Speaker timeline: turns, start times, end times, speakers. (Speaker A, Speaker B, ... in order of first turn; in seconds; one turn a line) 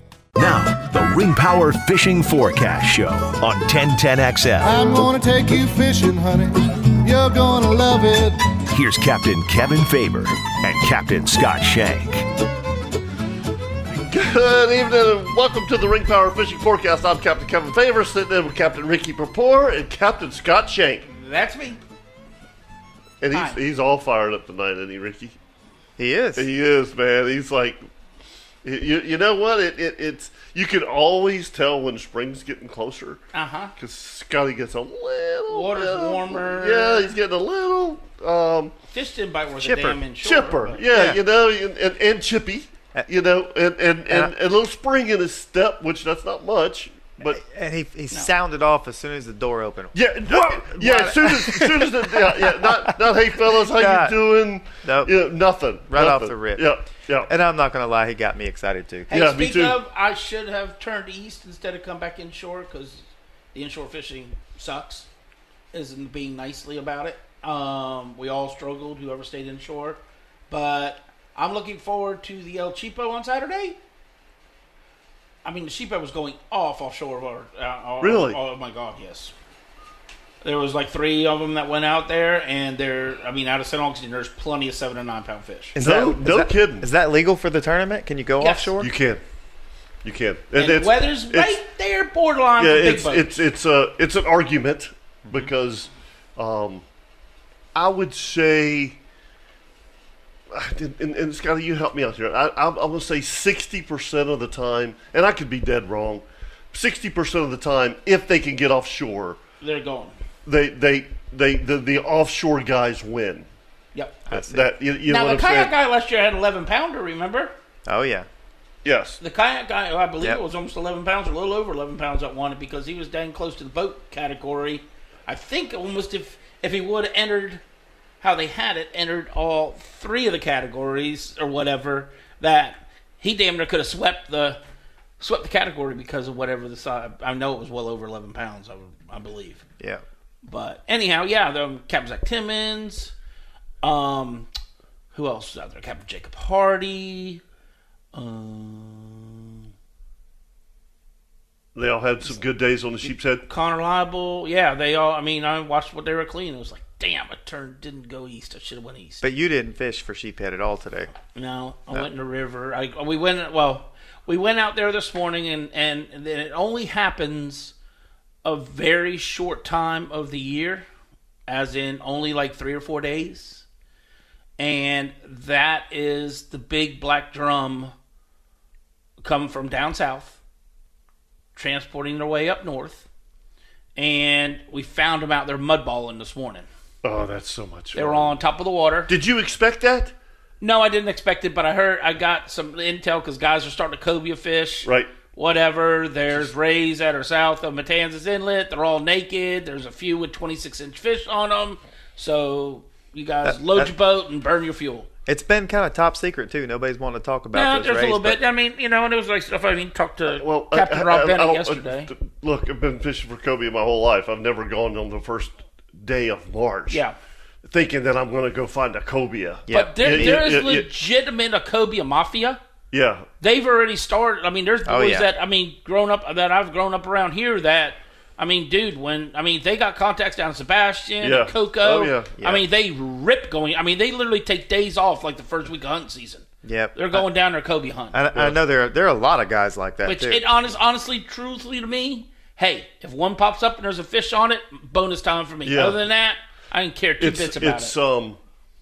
Speaker A: 0.3-4.9
Speaker B: 4.6-8.5
Speaker A: 8.7-12.2
Speaker C: 13.9-21.1
Speaker D: 21.1-21.8
Speaker C: 23.2-25.4
Speaker D: 23.3-23.6
Speaker E: 26.0-26.5
Speaker C: 26.4-27.8
Speaker C: 28.6-33.2
Speaker D: 33.3-33.7
Speaker C: 33.8-38.7
Speaker D: 35.5-37.1
Speaker D: 38.9-40.8
Speaker E: 39.5-40.0
Speaker C: 40.2-47.4
Speaker E: 40.9-41.2
Speaker E: 47.2-54.2
Speaker C: 49.9-57.3
Speaker E: 54.8-55.1
Speaker E: 55.9-56.7
Speaker E: 57.2-59.1
Speaker C: 59.1-59.8
Speaker D: 59.1-65.1
Speaker D: 65.7-73.8
Speaker D: 75.4-79.3
Speaker C: 78.0-78.4
Speaker D: 80.4-85.8
Speaker E: 85.7-88.9
Speaker C: 85.8-86.9
Speaker D: 88.4-88.7
Speaker C: 88.8-89.2
Speaker C: 90.0-91.6
Speaker D: 90.5-93.3
Speaker C: 92.6-96.8
Speaker C: 97.7-99.0
Speaker C: 100.5-109.4
Speaker D: 109.6-110.2
Speaker C: 110.4-113.5
Speaker D: 113.9-114.2
Speaker E: 114.3-114.7
Speaker C: 114.3-115.7
Speaker D: 115.1-117.5
Speaker E: 117.8-118.3
Speaker C: 118.8-119.2
Speaker D: 119.2-127.6
Speaker D: 128.2-134.6
Speaker D: 135.2-139.6
Speaker D: 140.4-143.1
Speaker D: 143.8-144.5
Speaker D: 145.1-147.4
Speaker D: 148.1-149.6
Speaker C: 151.7-153.4
Speaker D: 153.4-159.2
Speaker E: 159.2-161.1
Speaker D: 161.3-167.7
Speaker D: 168.4-170.8
Speaker D: 171.5-173.6
Speaker D: 174.6-177.9
Speaker D: 179.2-180.4
Speaker D: 181.6-183.1
Speaker D: 183.9-186.7
Speaker C: 187.0-188.3
Speaker D: 187.9-189.1
Speaker C: 189.1-190.1
Speaker D: 190.6-205.1
Speaker C: 194.8-195.1
Speaker E: 203.4-203.9
Speaker E: 205.2-208.4
Speaker D: 207.5-212.1
Speaker C: 210.3-217.0
Speaker D: 216.9-217.1
Speaker C: 217.6-220.9
Speaker E: 219.7-220.4
Speaker D: 219.7-222.6
Speaker C: 222.9-223.3
Speaker D: 223.4-238.2
Speaker E: 224.8-225.3
Speaker C: 231.2-232.4
Speaker E: 232.4-232.6
Speaker E: 236.6-237.3
Speaker E: 238.1-240.4
Speaker D: 240.0-247.9
Speaker C: 245.6-246.0
Speaker C: 247.2-248.4